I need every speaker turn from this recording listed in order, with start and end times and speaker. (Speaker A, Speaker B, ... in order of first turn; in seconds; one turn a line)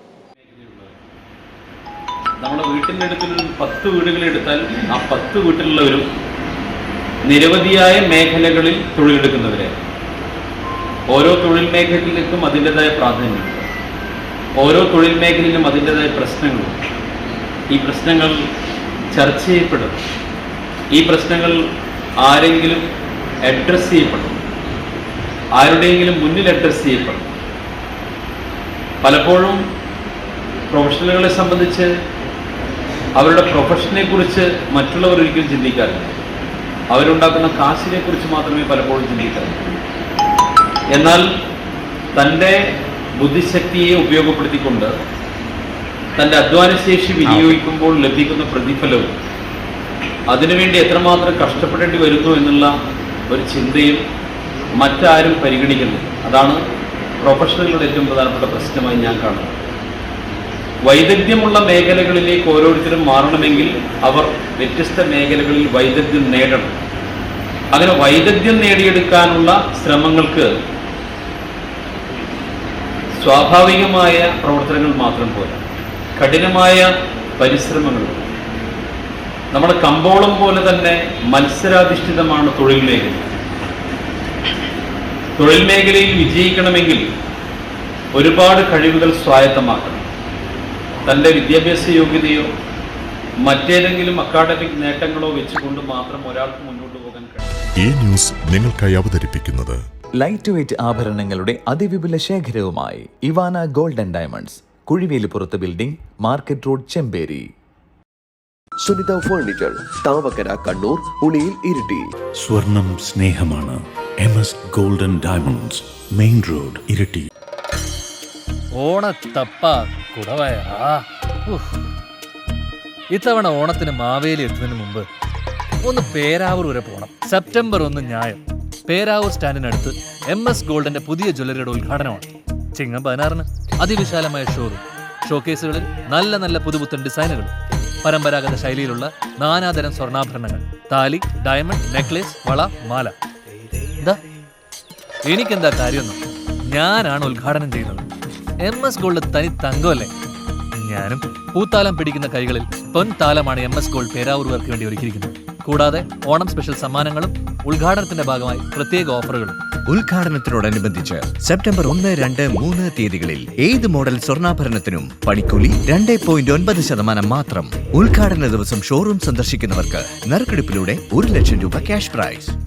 Speaker A: 0.4-0.9
Speaker A: 2.4-6.0
Speaker A: 7.2-9.7
Speaker A: 11.1-13.7
Speaker A: 14.6-16.8
Speaker A: 17.7-18.3
Speaker A: 19.1-20.0
Speaker A: 20.9-21.6
Speaker A: 22.2-22.8
Speaker A: 23.4-24.4
Speaker A: 25.6-27.3
Speaker A: 29.0-29.6
Speaker A: 30.7-31.9
Speaker A: 33.2-36.1
Speaker A: 36.9-39.6
Speaker A: 41.0-41.2
Speaker A: 42.1-42.5
Speaker A: 43.2-44.9
Speaker A: 46.2-49.1
Speaker B: 47.3-47.5
Speaker A: 50.3-52.7
Speaker A: 53.3-54.0
Speaker A: 54.8-56.6
Speaker A: 57.2-59.6
Speaker A: 60.9-66.8
Speaker A: 67.7-70.5
Speaker A: 73.2-75.6
Speaker A: 76.2-76.8
Speaker A: 77.4-78.2
Speaker A: 79.5-83.2
Speaker A: 85.4-87.0
Speaker A: 88.1-90.0
Speaker A: 91.1-92.5
Speaker A: 93.4-97.5
Speaker C: 97.8-99.8
Speaker D: 100.2-107.5
Speaker B: 108.8-112.1
Speaker E: 112.4-117.3
Speaker F: 118.8-121.8
Speaker F: 123.1-125.0
Speaker F: 125.8-143.1
Speaker F: 145.3-146.2
Speaker F: 146.7-148.1
Speaker F: 148.6-150.1
Speaker F: 150.8-159.6
Speaker G: 159.8-172.5